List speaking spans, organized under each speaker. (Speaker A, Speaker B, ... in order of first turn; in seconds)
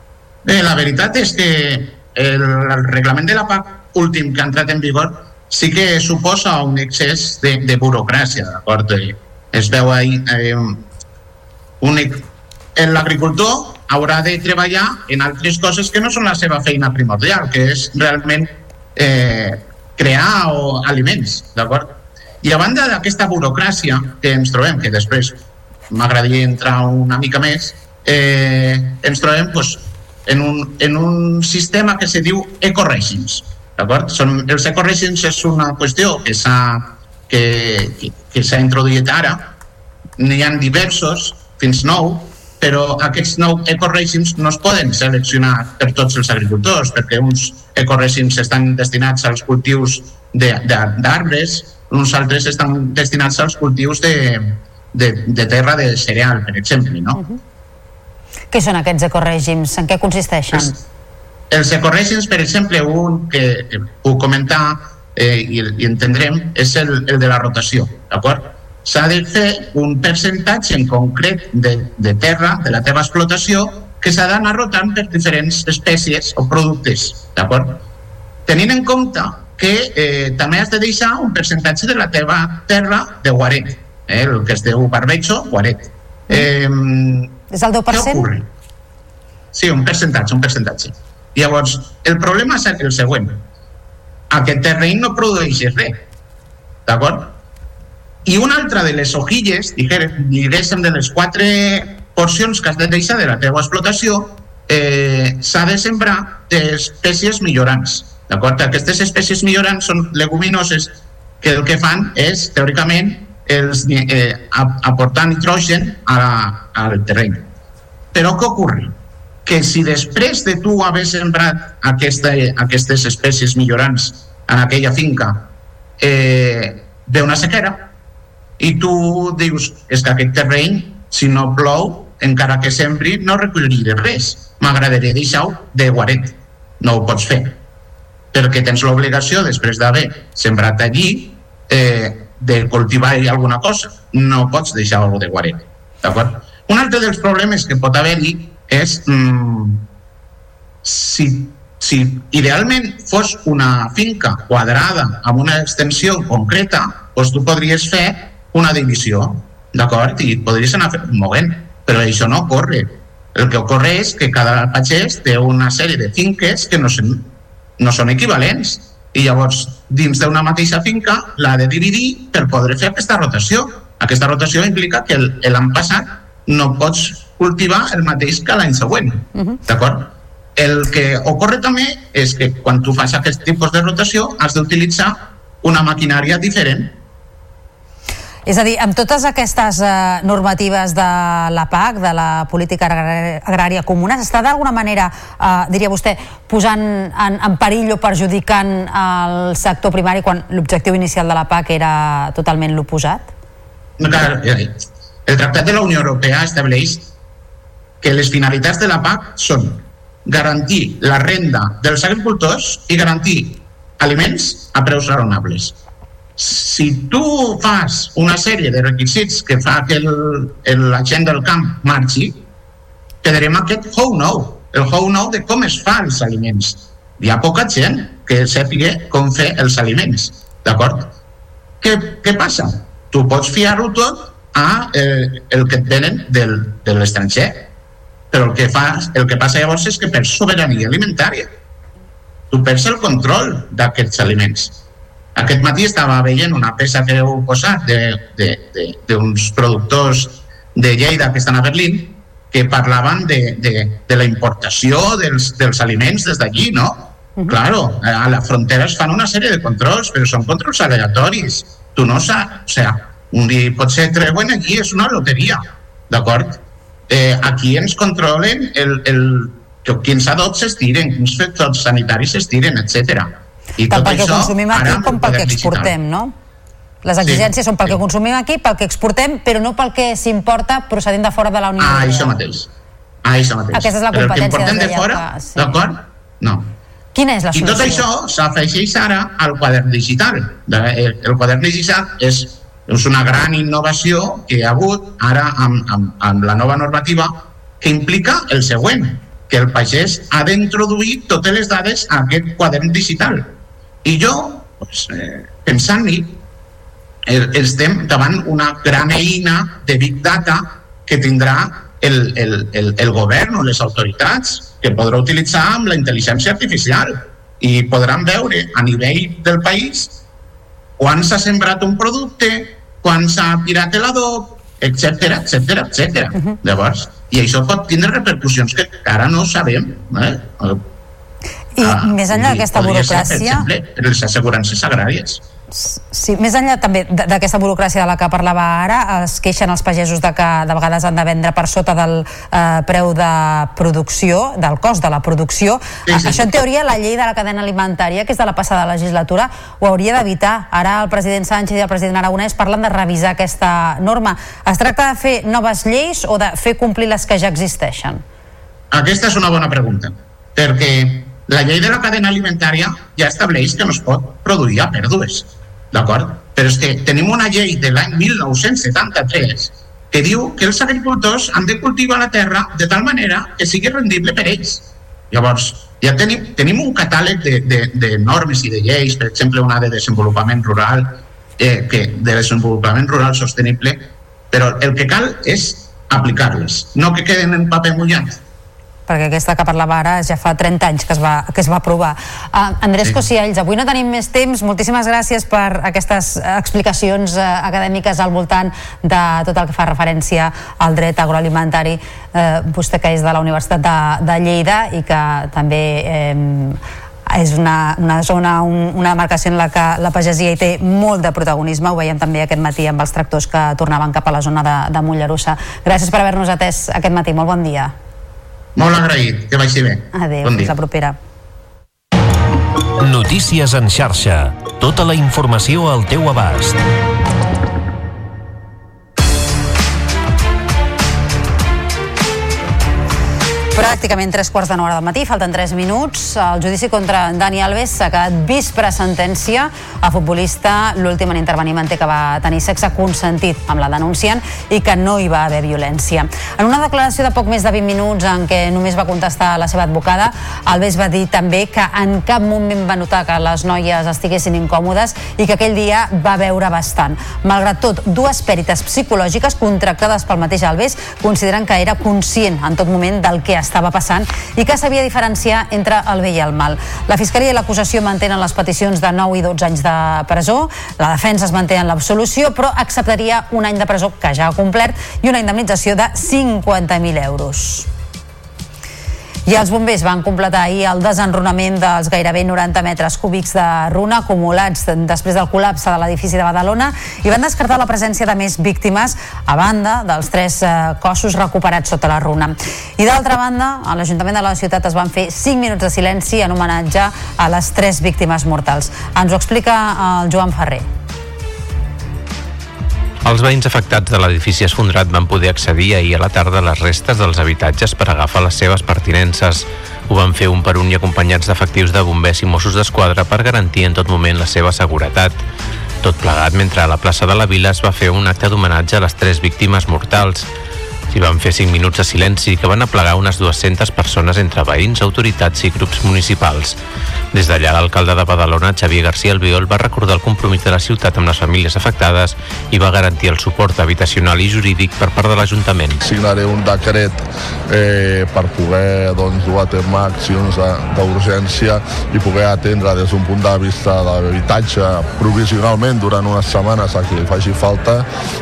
Speaker A: 0.5-10.8, 11.8-39.5, 40.2-57.2, 61.5-77.8, 78.5-87.3, 87.9-88.5, 89.5-93.4, 94.3-96.0, 96.9-97.3, 98.2-117.5, 118.1-119.0, 119.5-125.5, 126.0-127.8, 128.6-137.6, 138.3-149.8, 150.8-186.9, 204.0-207.1, 208.0-215.7, 216.4-222.4, 223.2-231.1, 231.8-237.7, 238.3-241.5, 242.5-244.8, 245.4-266.6, 267.1-275.9, 277.2-278.0, 281.8-282.7, 283.2-286.7, 287.5-303.5, 304.0-306.4, 307.3-320.2, 321.0-330.8, 331.8-335.4, 346.1-346.5, 358.9-388.4, 418.8-420.7
Speaker B: 58.5-60.8, 87.5-88.2, 188.5-203.3, 273.9-276.3, 277.1-282.4, 283.7-285.8, 287.1-288.1, 331.8-333.7, 335.7-358.2, 389.1-417.9, 420.1-421.2, 433.8-477.9, 479.5-500.9
Speaker C: 423.0-426.8
Speaker D: 503.2-515.4, 516.0-520.5, 521.1-526.8, 527.3-536.0
Speaker E: 536.0-548.1